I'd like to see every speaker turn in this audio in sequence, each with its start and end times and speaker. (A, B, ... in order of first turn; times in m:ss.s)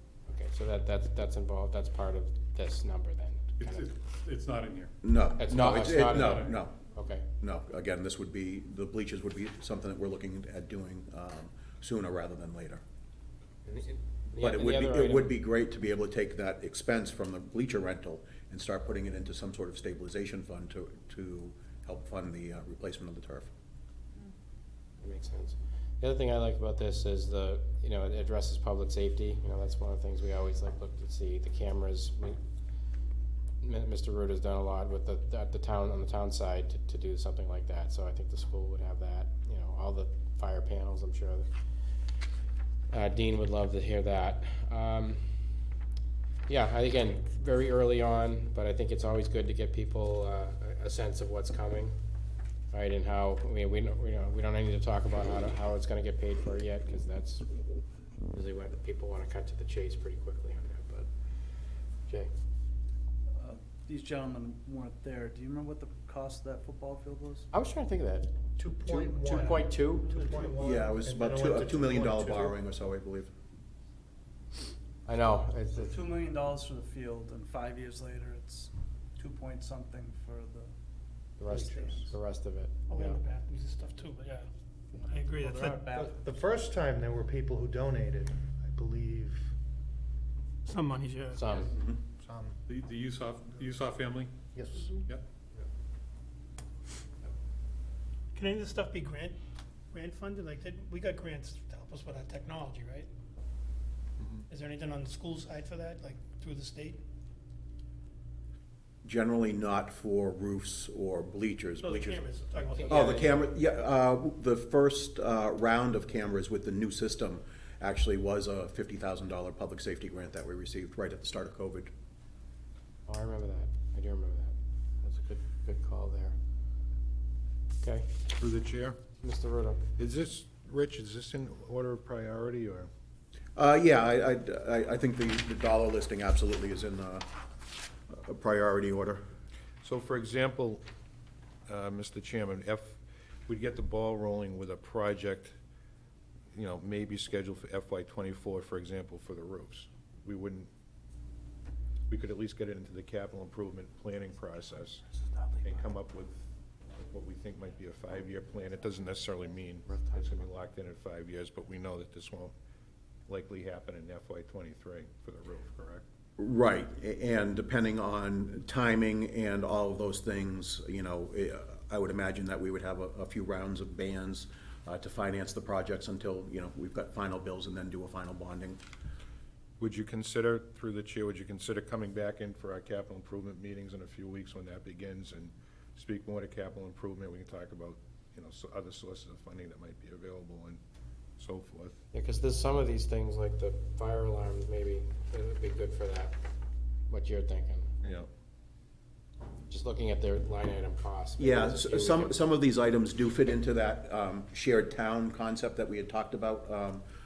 0:00.3-0:03.9 A
0:03.6-0:04.9 B
0:05.0-0:06.8 C
0:05.4-0:07.2 A
0:06.1-0:06.5 B
0:07.4-0:12.8 C
0:13.7-0:15.3 A
0:14.4-0:23.5 C
0:25.0-0:32.4 A
0:33.6-0:41.4 A
0:42.9-0:45.2 A
0:46.5-0:52.0 A
0:52.7-0:57.4 A
0:58.3-1:01.1 A
1:03.3-1:07.4 D
1:07.5-1:08.3 A
1:08.6-1:12.6 E
1:08.9-1:10.2 A
1:10.2-1:10.6 F
1:10.5-1:13.3 C
1:15.1-1:16.0 A
1:15.7-1:20.7 D
1:21.4-1:23.2 A
1:21.5-1:21.9 E
1:21.5-1:22.1 D
1:22.9-1:24.5 F
1:24.9-1:26.2 D
1:25.1-1:25.9 F
1:25.9-1:29.5 E
1:30.6-1:31.4 F
1:31.4-1:31.7 A
1:32.2-1:32.6 E
1:32.7-1:34.3 B
1:34.5-1:35.1 E
1:35.0-1:35.2 B
1:38.3-1:39.4 F
1:39.9-1:43.1 F
1:44.5-1:47.0 F
1:49.0-1:52.2 C
1:51.8-1:53.1 F
1:52.8-1:53.3 A
1:52.9-2:01.9 C
2:03.1-2:06.4 A
2:07.8-2:08.1 A
2:08.3-2:09.0 G
2:09.2-2:09.8 A
2:10.0-2:12.9 G
2:13.6-2:17.3 C
2:18.1-2:19.2 C
2:19.8-2:20.8 G
2:21.7-2:25.6 G
2:26.5-2:30.7 G
2:32.1-2:35.0 G
2:35.6-2:42.5 G
2:39.8-2:40.4 A
2:43.3-2:46.0 G
2:46.4-2:58.8 C
2:59.8-3:10.8 G
3:11.4-3:12.0 G
3:12.1-3:16.3 A
3:17.1-3:17.9 A
3:18.0-3:18.3 G
3:19.7-3:22.4 A
3:21.4-3:27.0 C